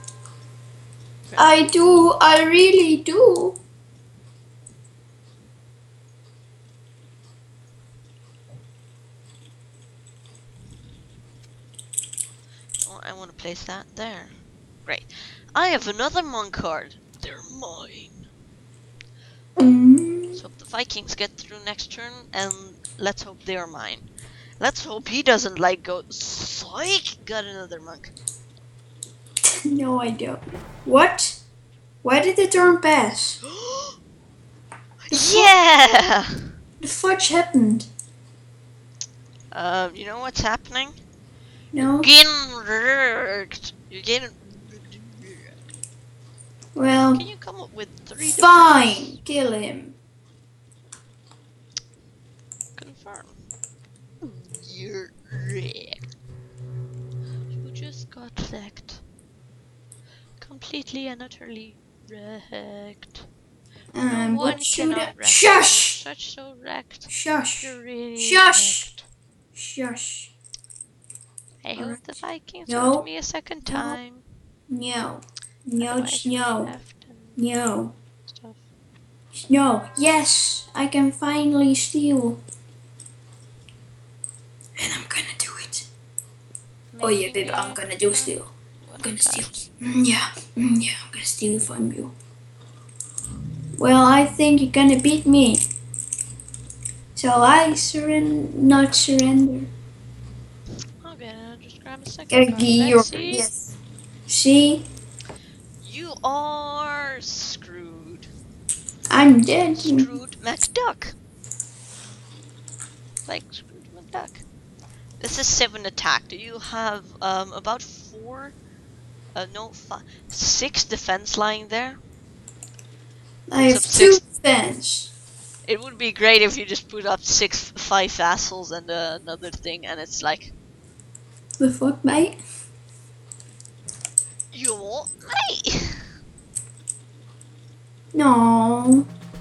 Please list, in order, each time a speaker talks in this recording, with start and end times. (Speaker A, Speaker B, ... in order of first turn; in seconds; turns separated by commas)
Speaker A: 1.3-1.7, Speaker B: 1.4-3.6, Speaker A: 12.8-18.3, Speaker B: 19.6-20.4, Speaker A: 20.3-24.1, Speaker A: 24.6-28.1, Speaker B: 29.7-31.4, Speaker B: 32.0-33.4, Speaker A: 33.5-34.0, Speaker B: 35.1-35.5, Speaker A: 35.1-36.4, Speaker B: 36.8-37.9, Speaker A: 39.5-41.0, Speaker B: 41.7-42.1, Speaker A: 41.8-45.6, Speaker B: 46.8-47.2, Speaker A: 47.1-49.2, Speaker B: 48.4-50.0, Speaker A: 52.8-53.5, Speaker A: 54.5-56.0, Speaker A: 57.5-59.0, Speaker A: 60.4-63.2, Speaker B: 63.9-66.0, Speaker A: 64.0-69.1, Speaker B: 67.1-68.9, Speaker B: 69.6-70.3, Speaker A: 71.6-74.3, Speaker B: 71.8-73.1, Speaker B: 73.6-74.0, Speaker B: 74.7-76.8, Speaker A: 75.8-77.4, Speaker B: 77.4-77.9, Speaker A: 78.3-78.6, Speaker B: 79.3-82.4, Speaker B: 84.8-85.9, Speaker A: 86.9-89.6, Speaker B: 87.0-88.5, Speaker B: 89.0-92.2, Speaker B: 93.8-95.7, Speaker B: 97.2-99.7, Speaker A: 101.0-103.5, Speaker B: 102.3-103.8, Speaker B: 104.3-104.9, Speaker A: 105.8-108.3, Speaker B: 109.1-110.1, Speaker A: 109.8-111.2, Speaker A: 113.3-114.5, Speaker A: 115.2-118.6, Speaker A: 119.3-122.0, Speaker B: 123.5-125.1, Speaker A: 123.6-124.2, Speaker A: 125.7-130.5, Speaker B: 131.6-132.4, Speaker A: 134.5-136.0, Speaker B: 138.1-139.1